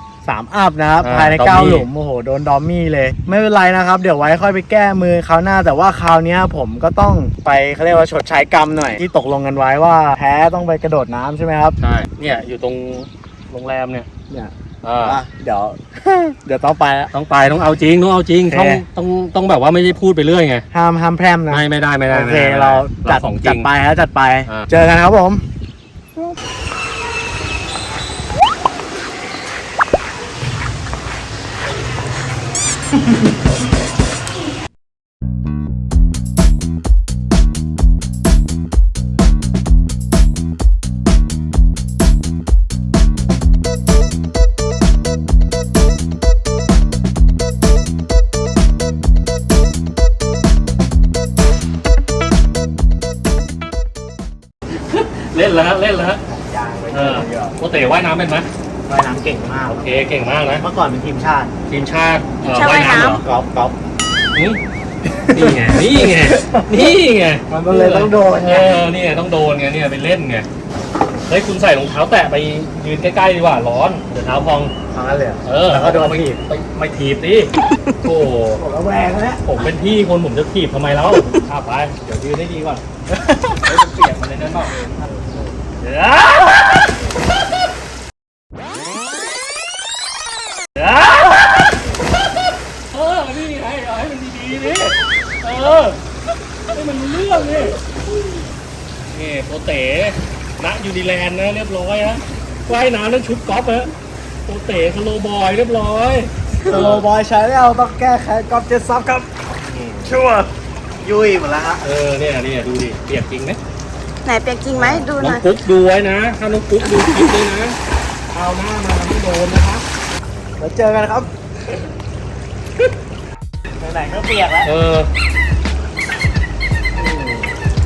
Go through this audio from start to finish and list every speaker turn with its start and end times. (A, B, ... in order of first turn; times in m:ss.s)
0:00.2-0:11.8 A
0:01.0-0:01.9 B
0:11.8-0:14.1 B
0:14.3-0:17.1 A
0:14.8-0:15.2 B
0:17.1-0:20.7 B
0:18.4-0:18.8 A
0:20.7-0:25.4 A
0:21.5-0:23.7 B
0:54.8-0:56.2 B
0:56.2-0:57.6 A
0:56.9-0:58.5 B
0:58.9-1:01.5 A
0:59.7-1:00.6 B
1:01.7-1:03.2 B
1:02.5-1:03.2 C
1:02.8-1:03.8 A
1:04.3-1:04.6 B
1:05.0-1:07.0 A
1:05.3-1:10.5 B
1:07.5-1:08.9 A
1:11.3-1:14.7 B
1:14.9-1:16.4 A
1:15.4-1:18.6 B
1:18.5-1:19.4 A
1:19.4-1:25.0 B
1:25.8-1:27.0 B
1:30.8-1:31.8 B
1:32.9-1:36.0 B
1:36.7-1:38.0 B
1:39.1-1:43.9 B
1:44.4-1:47.0 B
1:46.6-1:49.3 A
1:49.6-1:50.1 B
1:50.0-1:51.8 A
1:51.8-1:53.6 B
1:54.2-1:55.4 C
1:54.8-1:55.0 A
1:54.8-1:57.8 B
1:58.3-1:59.8 B
2:00.6-2:01.3 A
2:03.8-2:04.7 A
2:04.6-2:05.1 B
2:07.0-2:07.5 B